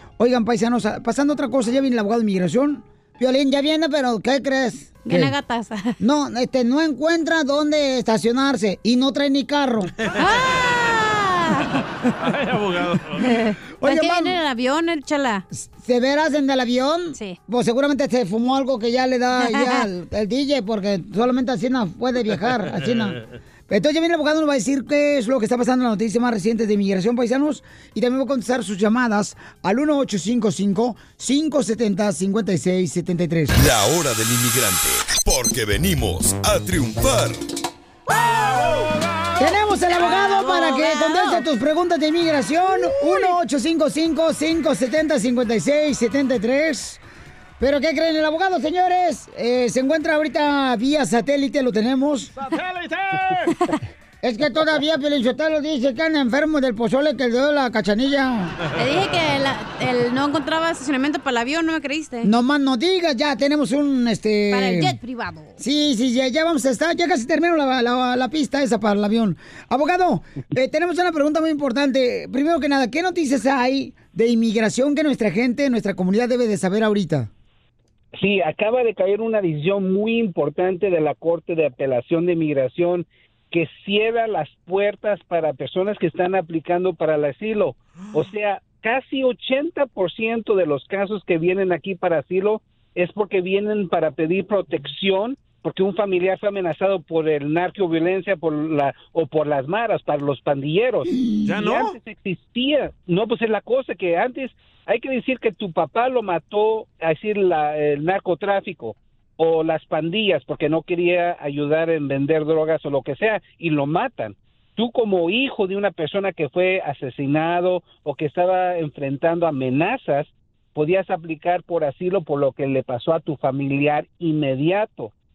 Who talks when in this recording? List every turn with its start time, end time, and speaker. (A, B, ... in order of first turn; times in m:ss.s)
0:00.2-0:05.3 A
0:05.0-0:06.0 B
0:06.0-0:09.9 A
0:10.1-0:11.8 B
0:12.2-0:13.2 C
0:13.2-0:15.4 B
0:13.8-0:14.4 A
0:15.5-0:33.5 A
0:19.4-0:19.9 B
0:33.5-0:37.4 D
0:38.2-0:39.4 C
0:39.4-0:47.0 A
0:39.9-0:41.4 B
0:42.8-0:43.3 B
0:47.6-0:52.3 A
0:52.4-0:53.6 C
0:54.2-0:58.6 A
0:58.8-1:02.3 B
1:02.2-1:05.0 A
1:04.5-1:05.6 B
1:05.6-1:17.3 A
1:18.2-2:05.1 E
1:28.0-1:28.3 C
1:41.0-1:41.5 A
1:41.4-1:42.0 C